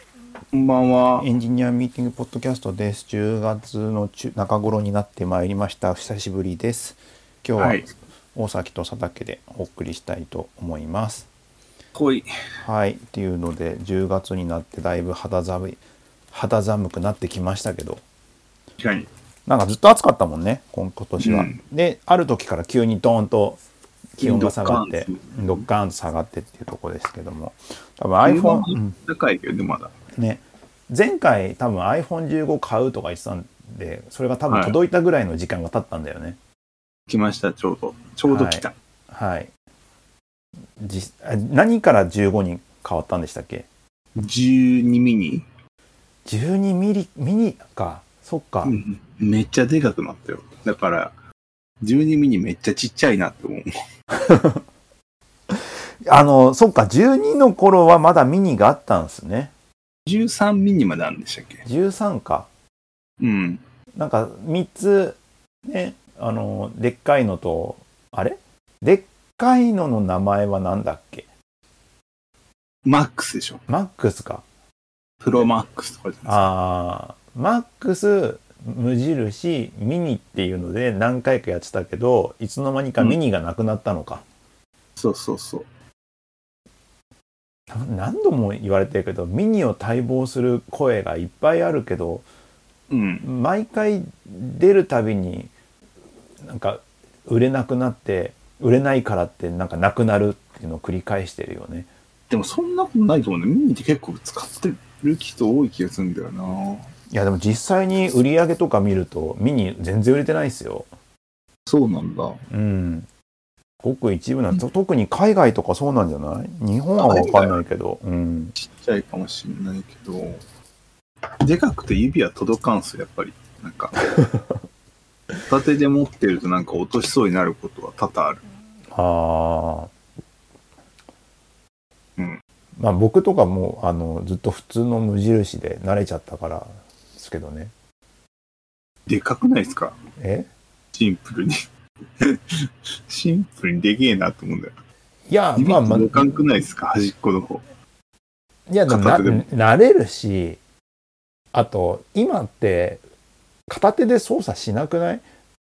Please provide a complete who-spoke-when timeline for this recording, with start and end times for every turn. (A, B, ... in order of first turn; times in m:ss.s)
0:00.5-0:01.3 A
0:01.2-0:11.3 B
0:07.6-0:07.9 A
0:11.9-0:12.3 A
0:12.6-0:15.8 B
0:16.3-0:18.0 B
0:18.8-0:19.1 A
0:19.5-0:23.6 B
0:21.2-0:21.6 A
0:24.2-0:29.0 B
0:24.2-0:25.6 A
0:28.2-0:29.9 A
0:30.2-0:36.4 B
0:34.5-0:34.8 A
0:37.1-0:38.7 A
0:38.3-0:39.5 B
0:40.8-0:43.7 B
0:44.2-0:45.5 A
0:46.3-0:48.8 B
0:48.6-0:51.1 A
0:51.8-0:53.7 A
0:54.2-0:54.6 B
0:55.6-0:59.5 B
1:00.1-1:01.6 A
1:01.6-1:02.5 B
1:03.2-1:03.6 A
1:04.0-1:11.3 B
1:12.9-1:13.6 A
1:13.7-1:14.4 B
1:15.2-1:16.5 A
1:16.3-1:24.2 B
1:25.0-1:25.7 A
1:27.7-1:32.3 B
1:32.9-1:33.3 A
1:33.2-1:35.5 B
1:36.4-1:41.9 B
1:42.3-1:46.9 A
1:47.1-1:50.9 B
1:51.7-1:52.4 A
1:52.5-1:53.1 B
1:53.8-1:58.6 B
1:57.0-1:57.6 A
1:58.6-2:00.4 A
2:01.4-2:04.0 A
2:04.1-2:04.6 B
2:05.5-2:08.4 A
2:08.9-2:09.9 B
2:12.8-2:17.7 B
2:19.1-2:20.0 A
2:20.2-2:20.5 B
2:21.0-2:21.6 A
2:22.2-2:24.7 A
2:25.3-2:26.3 B
2:25.6-2:27.6 A
2:28.7-2:30.6 B
2:28.9-2:29.5 A
2:31.5-2:33.0 B
2:33.7-2:35.2 B